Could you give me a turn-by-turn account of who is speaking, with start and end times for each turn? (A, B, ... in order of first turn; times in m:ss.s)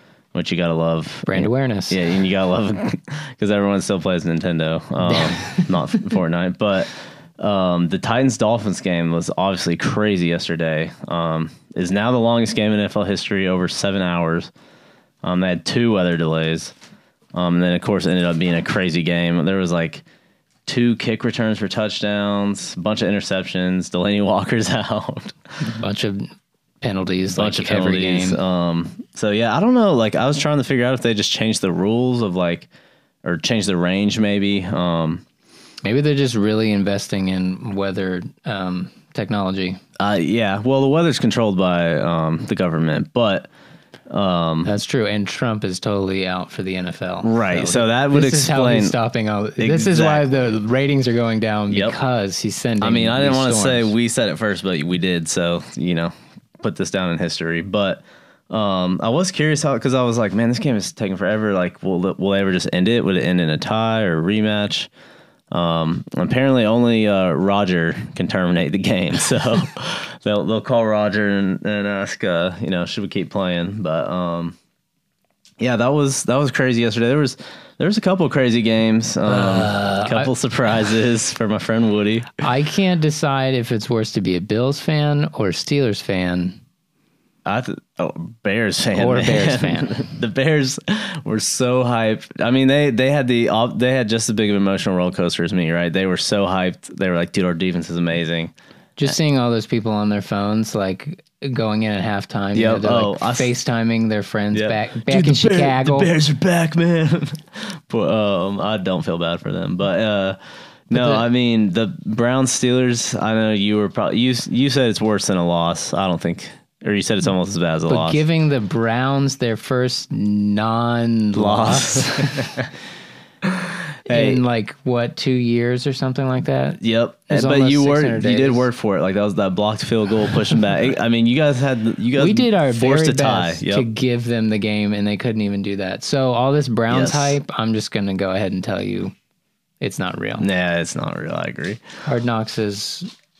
0:00.3-0:14.5 A
0:01.2-0:02.0 B
0:05.0-0:05.7 B
0:15.2-0:16.7 A
0:17.3-0:20.0 A
0:20.6-0:25.4 A
0:25.6-0:28.4 B
0:27.3-0:32.7 A
0:33.2-0:35.2 A
0:35.8-0:39.8 B
0:40.0-0:43.5 A
0:44.1-0:44.7 A
0:44.6-0:53.9 B
0:47.2-0:49.0 A
0:49.6-0:50.2 A
0:51.7-0:52.0 A
0:52.8-1:04.9 A
1:05.5-1:14.6 A
1:15.6-1:22.3 A
1:19.2-1:20.3 B
1:22.4-1:26.6 B
1:27.4-1:38.5 A
1:28.9-1:30.0 B
1:39.0-1:46.1 B
1:42.5-1:43.5 A
1:44.5-1:58.2 A
1:50.9-1:51.2 B
1:57.9-2:02.6 B
2:01.3-2:02.7 A
2:03.4-2:04.4 A
2:04.0-2:08.7 B
2:06.8-2:13.9 A
2:12.1-2:19.1 B
2:16.9-2:17.4 A
2:19.8-2:20.4 B
2:20.4-2:21.8 A
2:22.0-2:23.1 B